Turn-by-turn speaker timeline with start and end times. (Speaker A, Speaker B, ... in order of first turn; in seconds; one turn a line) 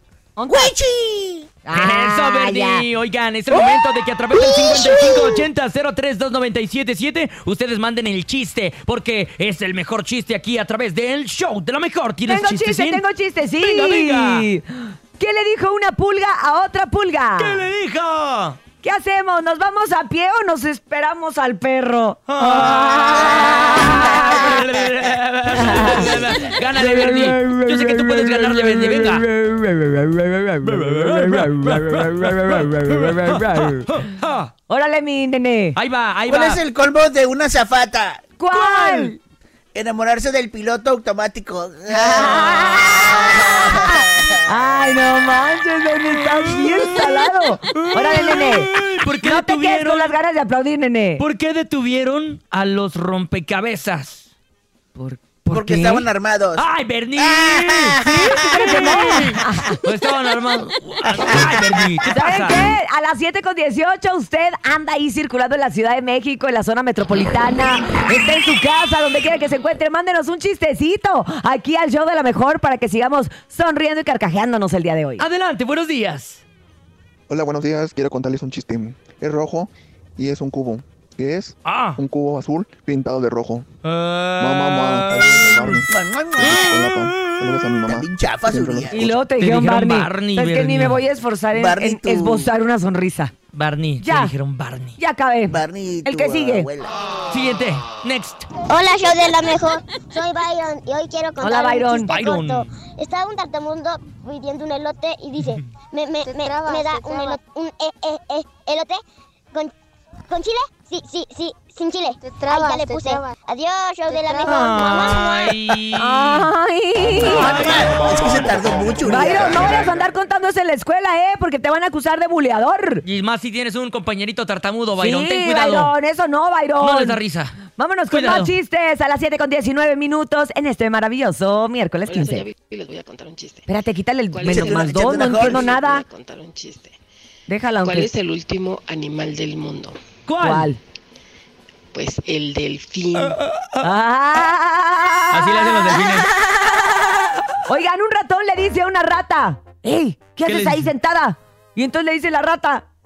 Speaker A: 0.4-0.7
Speaker B: 0.5-1.5
Speaker A: 1.6-2.9
Speaker C: 1.7-13.0
Speaker B: 4.5-5.2
Speaker A: 12.2-17.7
Speaker C: 13.6-14.5
Speaker C: 17.4-18.6
Speaker A: 18.8-24.6
Speaker C: 22.3-29.3
Speaker A: 25.5-34.0
Speaker C: 30.6-34.5
Speaker A: 34.7-35.8
Speaker C: 35.8-36.6
Speaker B: 36.3-38.2
Speaker A: 38.4-39.2
Speaker C: 38.5-39.1
Speaker B: 39.8-44.4
Speaker A: 41.9-48.7
Speaker C: 46.2-50.2
Speaker A: 49.2-51.2
Speaker C: 51.2-54.2
Speaker A: 55.0-55.4
Speaker B: 55.5-56.7
Speaker C: 55.5-62.7
Speaker B: 57.2-59.1
Speaker A: 58.1-59.8
Speaker B: 61.0-61.8
Speaker A: 62.1-75.2
Speaker C: 75.2-76.4
Speaker D: 77.3-83.7
Speaker C: 81.7-82.0
Speaker C: 83.8-85.9
Speaker D: 84.4-89.2
Speaker B: 85.9-86.8
Speaker C: 86.4-87.8
Speaker B: 87.9-89.0
Speaker A: 88.9-93.3
Speaker C: 89.4-91.0
Speaker B: 91.5-92.5
Speaker C: 93.5-95.0
Speaker A: 94.0-94.3
Speaker A: 95.0-96.7
Speaker B: 95.5-96.9
Speaker C: 97.3-98.5
Speaker E: 98.7-109.0
Speaker A: 101.4-102.1
Speaker C: 102.1-102.7
Speaker C: 105.4-105.7
Speaker E: 110.3-115.6
Speaker C: 114.5-116.5
Speaker A: 116.0-117.6
Speaker C: 117.2-118.3
Speaker B: 117.2-119.9
Speaker A: 119.0-123.0
Speaker C: 123.0-125.9
Speaker A: 125.0-127.2
Speaker C: 126.8-128.5
Speaker A: 127.8-132.5
Speaker F: 132.1-133.7
Speaker A: 133.7-136.1
Speaker F: 134.3-136.9
Speaker B: 134.5-135.7
Speaker A: 137.5-138.1
Speaker F: 137.8-140.0
Speaker C: 140.3-140.7
Speaker A: 140.4-140.8
Speaker F: 141.9-143.4
Speaker C: 143.2-143.8
Speaker A: 143.8-147.0
Speaker C: 145.3-146.3
Speaker A: 147.7-152.9
Speaker C: 150.4-150.9